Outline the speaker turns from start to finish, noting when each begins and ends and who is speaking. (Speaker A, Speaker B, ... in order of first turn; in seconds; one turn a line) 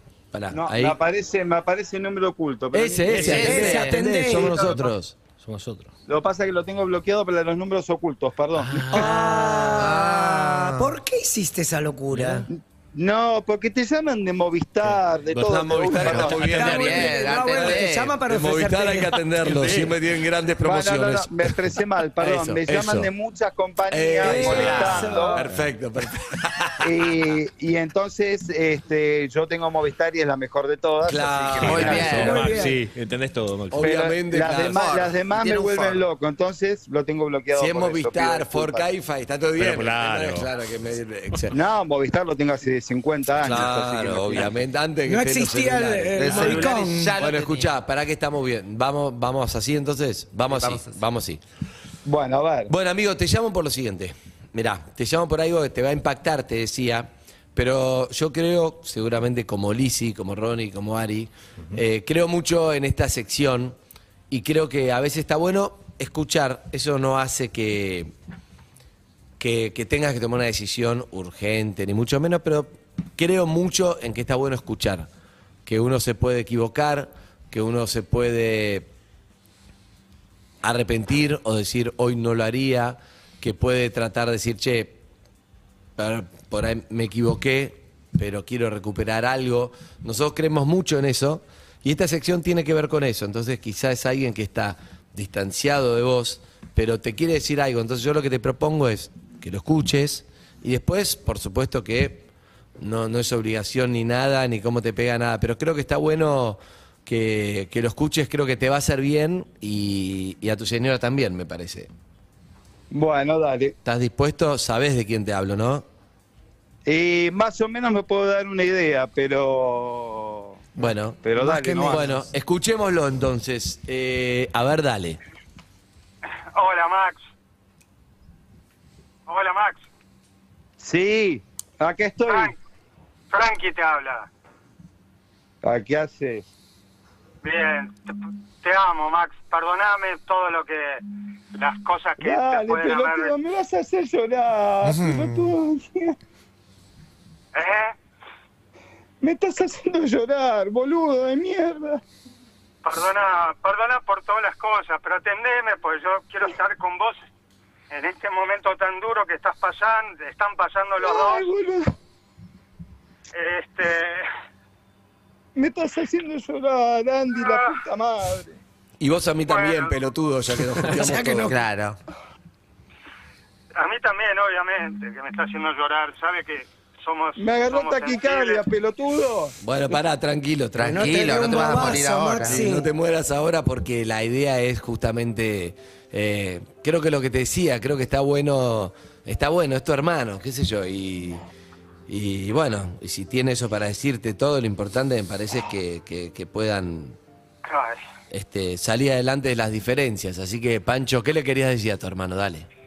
Speaker A: 0.3-1.0
Speaker B: 0.5-4.9
Speaker A: 2.7-5.2
Speaker C: 3.1-4.8
Speaker D: 3.2-4.0
Speaker E: 5.4-5.9
Speaker B: 6.1-9.1
Speaker E: 8.7-9.1
Speaker C: 8.9-12.4
Speaker D: 9.8-10.9
Speaker E: 12.1-12.4
Speaker B: 12.5-16.7
Speaker A: 15.4-21.6
Speaker E: 15.4-16.6
Speaker D: 16.1-18.2
Speaker C: 16.5-19.2
Speaker E: 19.4-19.9
Speaker B: 20.6-25.4
Speaker A: 22.2-23.1
Speaker A: 23.9-26.9
Speaker C: 24.2-25.5
Speaker B: 26.8-32.2
Speaker A: 31.0-32.5
Speaker E: 31.6-33.9
Speaker D: 31.6-32.5
Speaker C: 32.0-32.8
Speaker A: 33.7-35.1
Speaker B: 33.8-38.9
Speaker D: 34.8-36.0
Speaker A: 37.5-41.5
Speaker E: 39.6-40.5
Speaker B: 41.5-44.5
Speaker A: 43.4-51.4
Speaker C: 45.1-47.1
Speaker D: 46.2-47.7
Speaker D: 50.5-51.0
Speaker B: 52.0-52.7
Speaker A: 52.7-63.8
Speaker A: 64.3-68.1
Speaker A: 69.4-75.1
Speaker A: 75.7-78.9
Speaker A: 80.6-85.0
Speaker A: 86.0-102.2
Speaker A: 102.8-111.9
Speaker B: 112.9-113.7
Speaker A: 113.8-115.8
Speaker B: 116.8-120.6
Speaker A: 120.8-125.2
Speaker B: 121.2-122.2
Speaker C: 121.4-122.2
Speaker F: 126.5-127.2
Speaker F: 129.3-129.8
Speaker B: 130.8-132.5
Speaker F: 132.3-132.6
Speaker F: 133.3-134.3
Speaker B: 135.6-136.4
Speaker F: 137.4-141.0
Speaker F: 141.5-143.3
Speaker B: 142.2-146.2
Speaker D: 144.8-145.6
Speaker F: 147.5-147.9
Speaker B: 149.2-152.0
Speaker F: 152.8-157.3
Speaker F: 157.9-161.5
Speaker B: 161.0-161.9
Speaker F: 163.3-164.3
Speaker B: 165.5-168.6
Speaker F: 167.4-167.8
Speaker A: 169.0-171.5
Speaker F: 169.5-169.9
Speaker C: 170.9-171.5
Speaker D: 171.4-172.0
Speaker F: 173.7-178.6
Speaker B: 177.4-179.6
Speaker A: 179.6-191.4
Speaker D: 180.8-182.7
Speaker C: 180.8-182.9
Speaker A: 192.1-197.2
Speaker F: 197.6-198.0
Speaker A: 198.3-202.7